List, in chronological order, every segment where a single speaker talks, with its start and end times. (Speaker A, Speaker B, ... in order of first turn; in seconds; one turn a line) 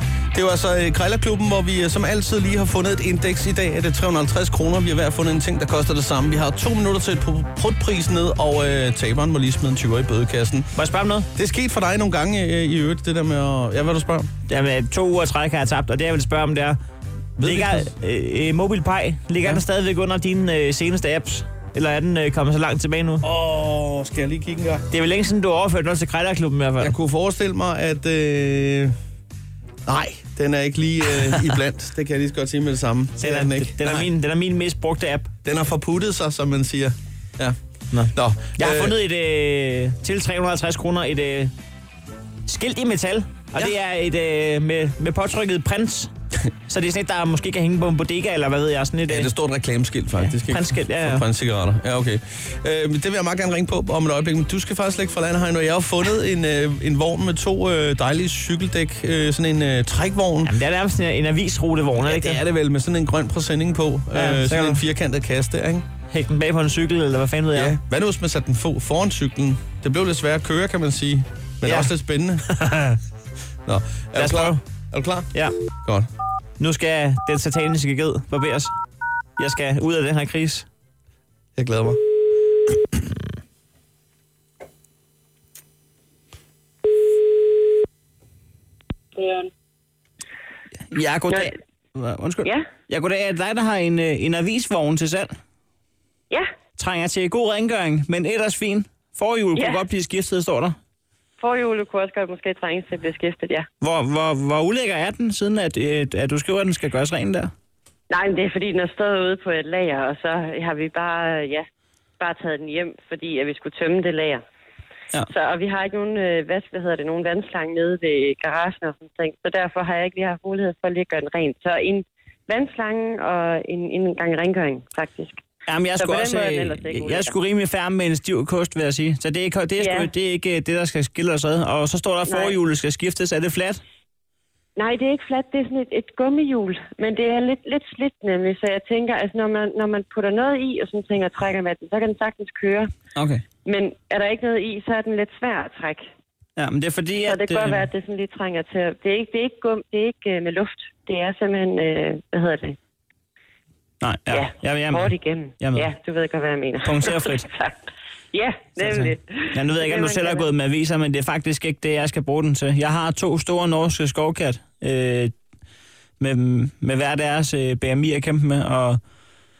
Speaker A: 0.3-10.7
Speaker B: 10.7-11.3
Speaker A: 11.3-14.3
Speaker B: 14.5-16.8
Speaker A: 17.4-17.9
Speaker B: 17.4-23.2
Speaker A: 23.2-24.8
Speaker B: 24.9-26.9
Speaker A: 26.8-28.9
Speaker A: 29.9-34.1
Speaker B: 33.2-35.3
Speaker A: 35.4-37.6
Speaker B: 37.9-41.5
Speaker A: 38.1-39.0
Speaker B: 42.5-46.1
Speaker B: 46.7-49.3
Speaker A: 49.1-60.5
Speaker B: 50.2-51.2
Speaker B: 60.4-62.4
Speaker A: 62.0-65.8
Speaker B: 64.1-64.8
Speaker B: 66.1-67.8
Speaker A: 67.5-72.4
Speaker B: 71.6-71.9
Speaker A: 73.7-75.3
Speaker B: 74.2-74.6
Speaker A: 75.8-76.1
Speaker B: 76.6-78.7
Speaker B: 79.4-80.7
Speaker A: 81.5-82.0
Speaker B: 90.9-95.3
Speaker B: 96.8-100.8
Speaker C: 99.5-99.8
Speaker C: 101.4-103.7
Speaker B: 103.8-107.5
Speaker C: 108.1-111.7
Speaker C: 112.2-114.4
Speaker C: 115.3-125.4
Speaker B: 125.7-133.8
Speaker C: 126.0-127.4
Speaker C: 129.8-130.1
Speaker C: 132.2-132.6
Speaker C: 134.8-142.9
Speaker B: 143.1-143.4
Speaker C: 143.6-146.1
Speaker B: 146.6-147.8
Speaker C: 147.2-152.8
Speaker B: 154.0-155.9
Speaker C: 154.3-157.8
Speaker B: 156.8-157.5
Speaker C: 158.3-160.4
Speaker B: 158.8-165.3
Speaker B: 166.2-169.0